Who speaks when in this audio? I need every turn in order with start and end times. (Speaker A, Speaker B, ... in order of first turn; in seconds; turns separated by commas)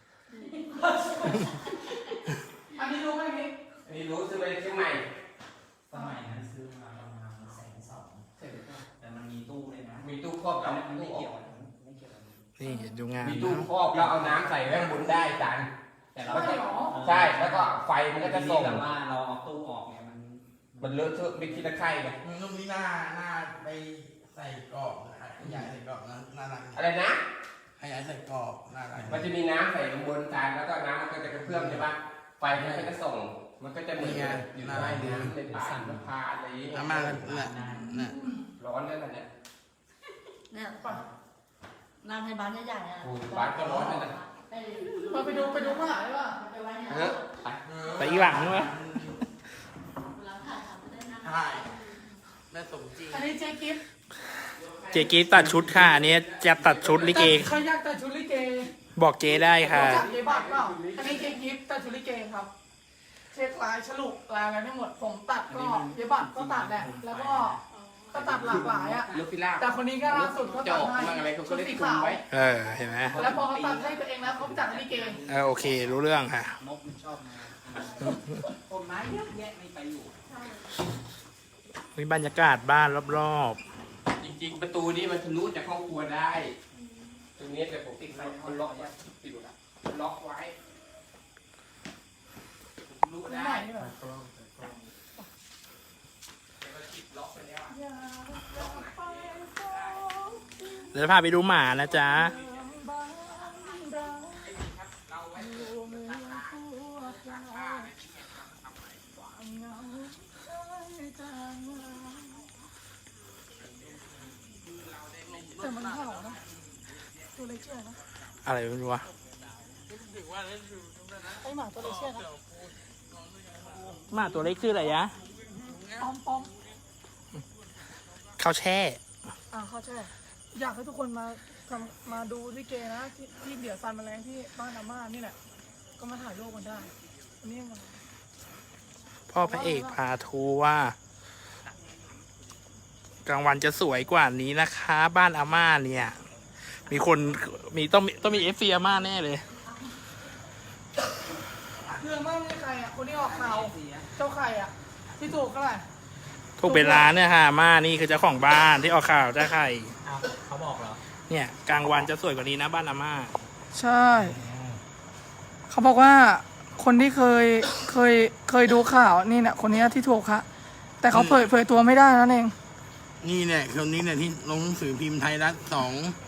Speaker A: 0.3-1.6, Speaker B: 0.6-1.7, Speaker B: 2.7-3.5, Speaker C: 3.8-5.1, Speaker D: 5.9-8.3, Speaker C: 8.4-8.8, Speaker D: 8.8-12.5, Speaker C: 10.0-11.3, Speaker E: 12.6-13.7, Speaker C: 13.2-15.7, Speaker D: 13.5-14.9, Speaker D: 16.1-21.7, Speaker B: 16.3-17.0, Speaker C: 16.3-18.9, Speaker C: 20.8-22.2, Speaker F: 22.2-26.8, Speaker D: 25.4-25.7, Speaker C: 26.7-27.2, Speaker F: 27.8-29.3, Speaker D: 28.9-29.2, Speaker C: 29.1-37.0, Speaker F: 31.4-31.9, Speaker F: 32.5-32.9, Speaker F: 33.9-35.3, Speaker D: 34.7-36.0, Speaker F: 36.7-38.2, Speaker D: 36.8-38.0, Speaker B: 38.0-38.3, Speaker C: 38.6-39.3, Speaker A: 40.5-40.9, Speaker A: 42.0-47.2, Speaker C: 43.0-44.1, Speaker F: 43.5-44.1, Speaker B: 45.1-46.4, Speaker C: 46.9-47.6, Speaker F: 47.6-49.2, Speaker E: 48.0-49.0, Speaker A: 50.1-52.1, Speaker F: 51.2-51.7, Speaker F: 52.5-53.3, Speaker B: 53.1-53.8, Speaker C: 54.6-57.5, Speaker E: 54.9-57.5, Speaker B: 57.0-58.7, Speaker E: 58.9-60.0, Speaker C: 59.3-61.4, Speaker B: 59.6-62.5, Speaker B: 63.3-67.6, Speaker D: 65.5-67.6, Speaker B: 68.1-72.2, Speaker D: 68.1-69.2, Speaker C: 68.3-72.2, Speaker E: 72.3-73.2, Speaker B: 73.1-75.2, Speaker D: 73.1-76.0, Speaker E: 75.3-76.6, Speaker D: 76.6-80.1, Speaker A: 80.2-80.7, Speaker E: 81.9-83.6, Speaker C: 84.2-86.6, Speaker A: 86.7-87.2, Speaker C: 87.4-90.5, Speaker D: 88.1-89.0, Speaker C: 92.8-93.7, Speaker B: 93.2-93.9, Speaker D: 94.0-94.8, Speaker C: 96.6-97.7, Speaker B: 97.7-100.8, Speaker C: 98.5-100.0, Speaker E: 100.9-102.3, Speaker C: 102.1-102.4, Speaker B: 102.2-104.5, Speaker A: 103.3-104.1, Speaker C: 104.3-108.4, Speaker B: 105.3-107.9, Speaker B: 109.2-112.4, Speaker C: 114.7-115.9, Speaker B: 115.6-116.4, Speaker B: 117.3-118.0, Speaker E: 118.4-119.0, Speaker F: 119.9-121.4, Speaker B: 121.4-122.2, Speaker F: 122.2-122.5, Speaker F: 123.1-124.1, Speaker E: 124.1-125.2, Speaker B: 126.0-126.5, Speaker E: 128.4-129.0, Speaker B: 129.5-135.4, Speaker B: 136.0-138.0, Speaker E: 139.3-140.9, Speaker B: 139.4-140.0, Speaker E: 143.2-146.2, Speaker E: 146.8-149.4, Speaker B: 151.9-155.9, Speaker D: 153.2-154.1, Speaker E: 156.6-159.9, Speaker B: 156.6-157.1, Speaker D: 160.0-161.0, Speaker E: 161.3-163.3, Speaker B: 163.7-164.4, Speaker D: 164.2-164.8, Speaker B: 165.7-170.4, Speaker B: 171.0-172.5, Speaker F: 173.2-176.2